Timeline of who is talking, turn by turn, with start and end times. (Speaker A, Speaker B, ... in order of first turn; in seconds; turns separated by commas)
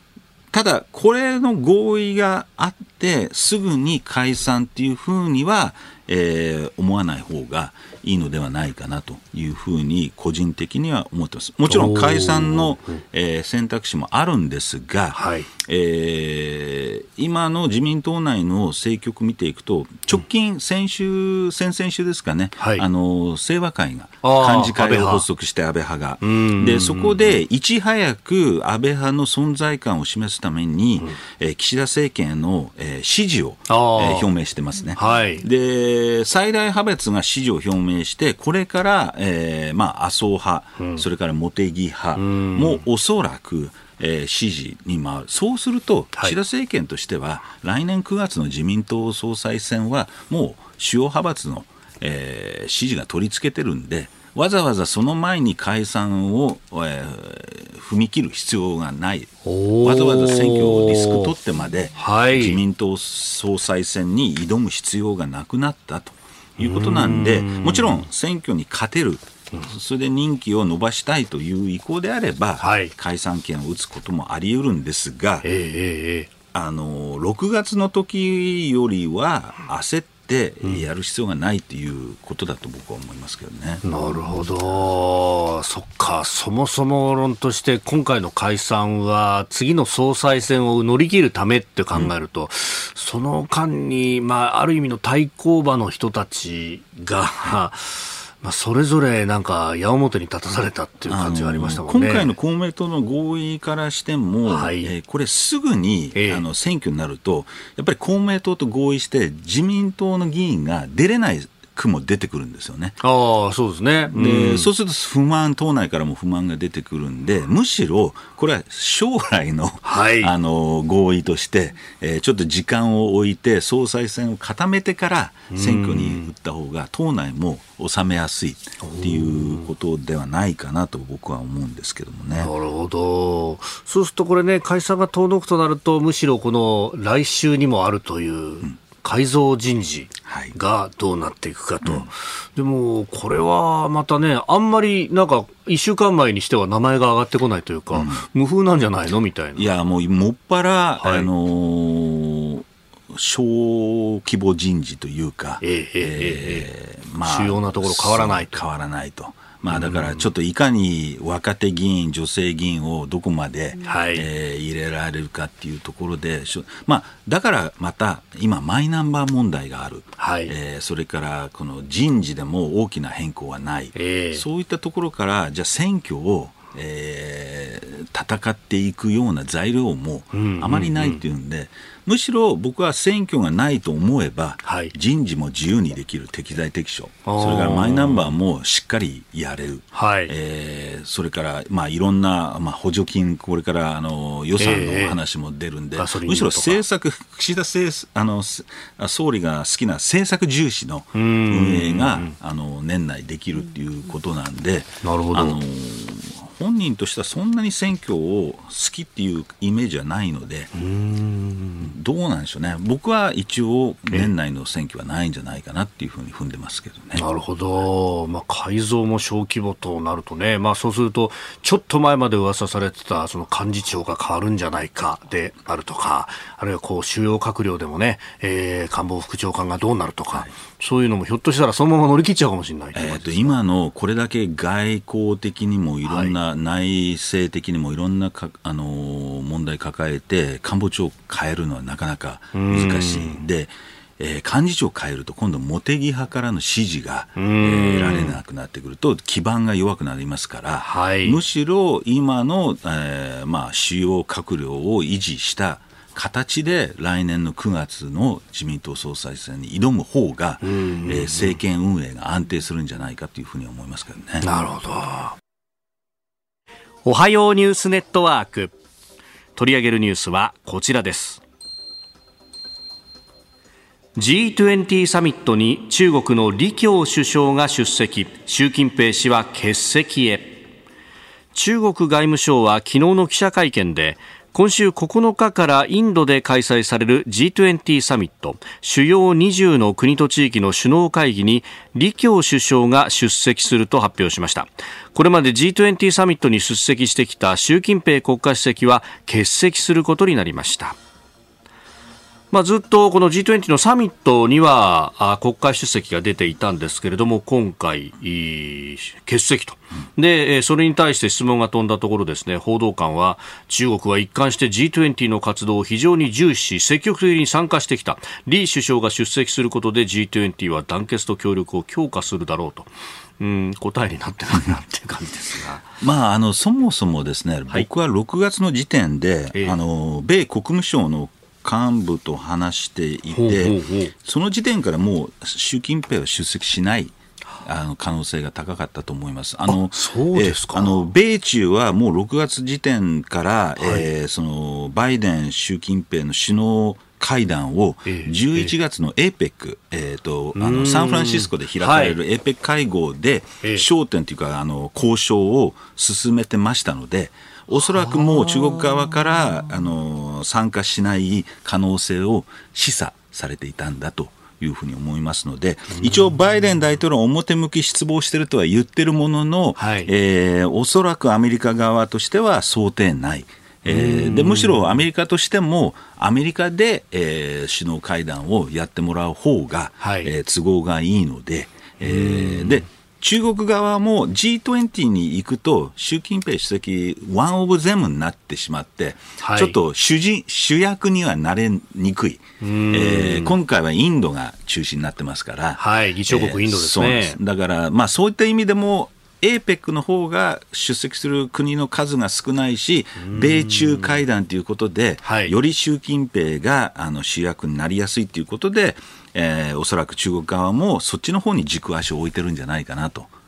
Speaker A: 0.5-75.5, Speaker B: 11.7-13.0, Speaker B: 15.1-15.5, Speaker B: 22.6-22.9, Speaker B: 24.2-25.2, Speaker B: 26.2-27.4, Speaker B: 33.7-34.3, Speaker B: 35.0-35.4, Speaker B: 40.8-41.0, Speaker B: 42.1-42.8, Speaker B: 59.4-61.3, Speaker B: 62.0-62.6, Speaker B: 66.6-68.1, Speaker B: 72.6-72.9, Speaker B: 75.4-76.3, Speaker A: 76.5-84.8, Speaker B: 83.8-102.3, Speaker A: 101.1-113.0, Speaker B: 104.5-104.9, Speaker B: 106.1-106.4, Speaker B: 113.0-114.7, Speaker A: 114.1-132.5, Speaker B: 119.8-120.3, Speaker B: 125.5-126.3, Speaker B: 128.8-129.7, Speaker B: 132.3-149.7, Speaker A: 140.2-140.5, Speaker A: 147.9-148.2, Speaker A: 149.6-210.7, Speaker B: 151.0-151.3, Speaker B: 155.6-156.7, Speaker B: 157.2-158.6, Speaker B: 159.7-160.3, Speaker B: 163.8-164.3, Speaker B: 170.2-170.5, Speaker B: 173.9-174.4, Speaker B: 180.3-181.2, Speaker B: 184.6-184.9, Speaker B: 187.2-188.3, Speaker B: 189.9-190.3, Speaker B: 194.6-195.2, Speaker B: 195.9-196.8, Speaker B: 201.1-202.3, Speaker B: 205.0-205.6, Speaker B: 210.7-211.9, Speaker A: 211.8-217.2, Speaker B: 217.2-233.6, Speaker A: 232.9-264.5, Speaker B: 236.0-236.3, Speaker B: 242.5-243.4, Speaker B: 247.3-248.4, Speaker B: 250.8-251.4, Speaker B: 260.6-261.6, Speaker B: 264.4-265.4, Speaker B: 267.0-268.7, Speaker B: 269.6-271.4, Speaker B: 274.1-280.6, Speaker B: 281.5-300.9, Speaker B: 302.5-325.9, Speaker A: 326.0-413.3, Speaker B: 333.3-334.1, Speaker B: 339.7-341.0, Speaker B: 343.8-344.1, Speaker B: 348.1-348.7, Speaker B: 350.5-352.2, Speaker B: 357.7-359.0, Speaker B: 365.9-366.3, Speaker B: 369.8-370.1, Speaker B: 373.9-375.0, Speaker B: 380.0-380.3, Speaker B: 382.0-382.9, Speaker B: 389.4-389.7, Speaker B: 392.6-393.6, Speaker B: 395.8-397.4, Speaker B: 403.2-404.2, Speaker B: 405.2-405.5